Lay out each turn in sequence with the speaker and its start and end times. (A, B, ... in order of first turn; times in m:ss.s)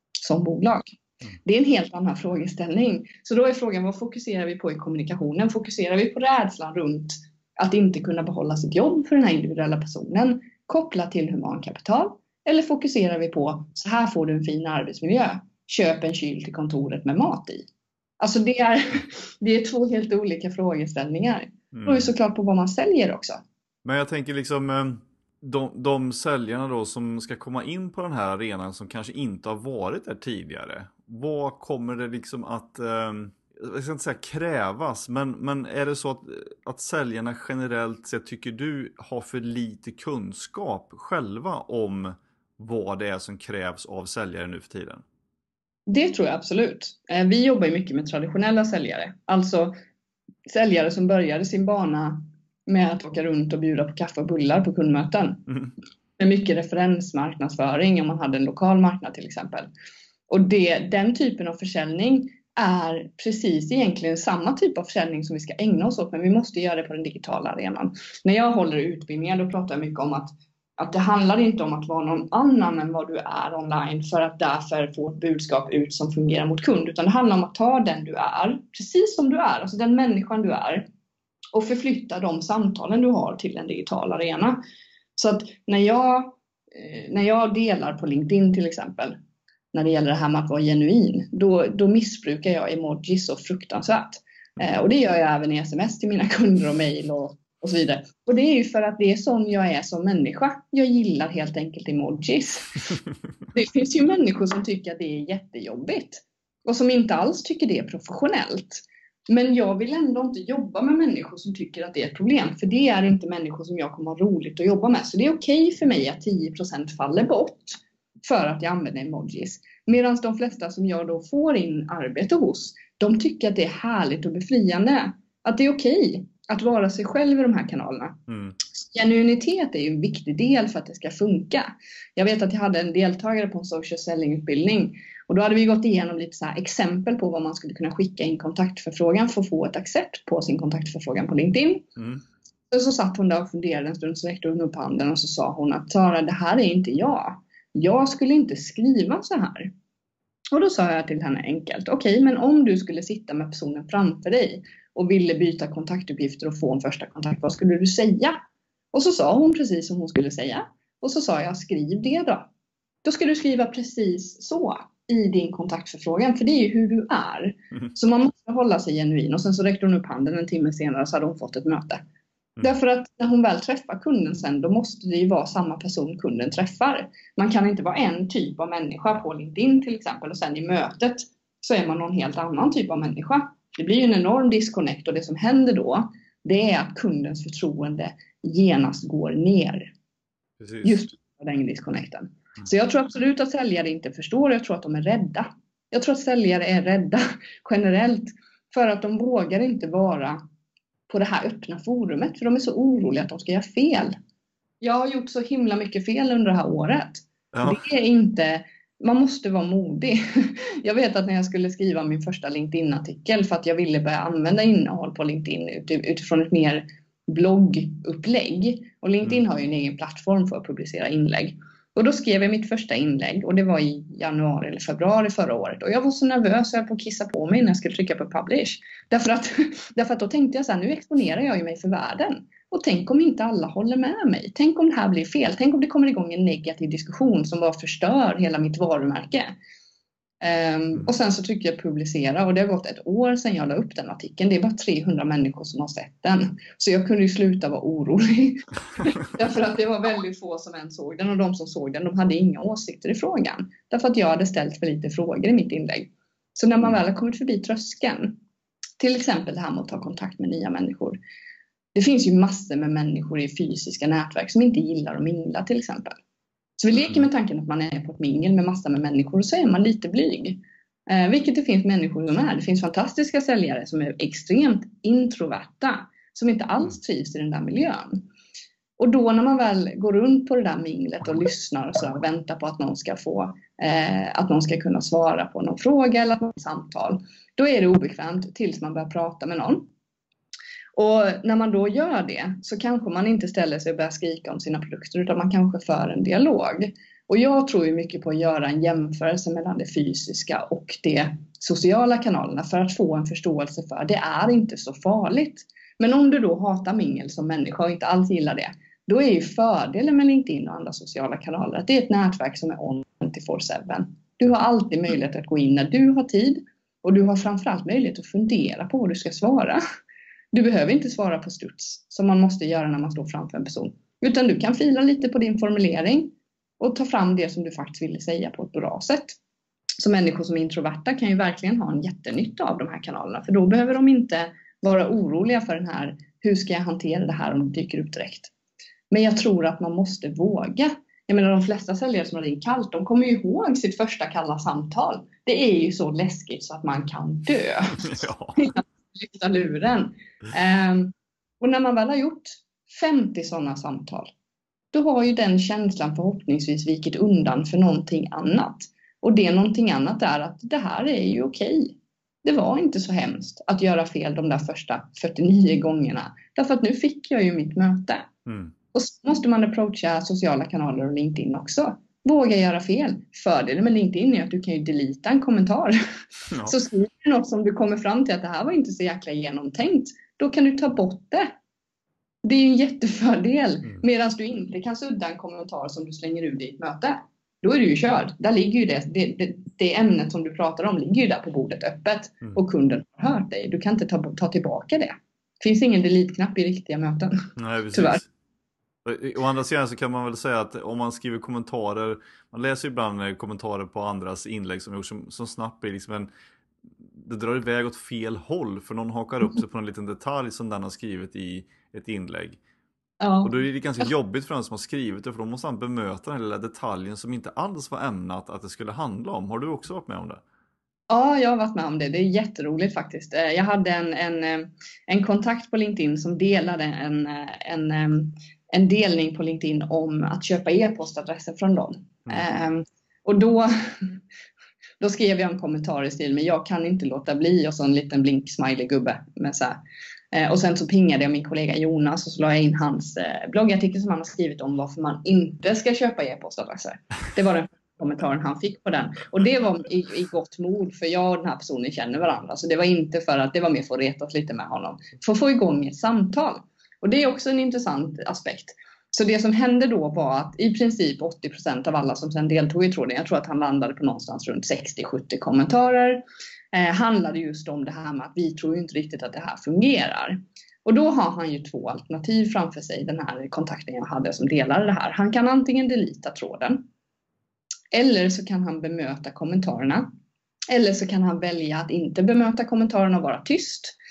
0:00.2-0:17.7 A
0:18.2-0:23.4 A
0:21.7-0:22.1 B
0:23.8-0:45.0 B
0:45.9-0:49.7 A
0:50.5-0:55.5 A
0:56.2-0:59.7 A
1:00.3-1:20.9 A
1:21.5-1:24.6 A
1:25.2-1:29.2 A
1:29.7-1:42.9 A
1:43.5-2:21.9 A
2:08.3-2:08.6 B
2:22.7-2:29.7 A
2:30.5-2:38.4 A
2:38.9-2:42.5 A
2:43.0-2:52.0 A
2:52.6-3:09.9 A
3:10.6-3:11.0 B
3:10.8-3:20.4 A
3:21.1-3:24.1 A
3:24.8-3:59.6 A
3:27.5-3:27.8 B
4:00.4-4:18.4 A
4:19.0-4:21.2 A
4:22.0-4:26.2 A
4:26.8-4:38.2 A
4:39.0-4:49.9 A
4:51.0-5:19.8 A
5:20.5-5:29.4 A
5:30.0-5:38.5 A
5:39.1-5:54.3 A
5:48.0-5:48.7 B
5:54.9-6:08.3 A
6:08.5-6:08.7 B
6:08.9-6:16.0 A
6:16.5-6:16.8 B
6:16.6-6:21.5 A
6:22.4-6:38.2 A
6:37.6-6:38.2 B
6:39.0-6:46.3 B
6:47.1-6:52.6 B
6:53.2-6:54.1 A
6:53.4-7:00.4 B
7:01.1-7:14.2 A
7:15.0-7:19.8 A
7:20.3-7:56.8 A
7:57.9-8:00.1 A
8:00.7-8:04.0 A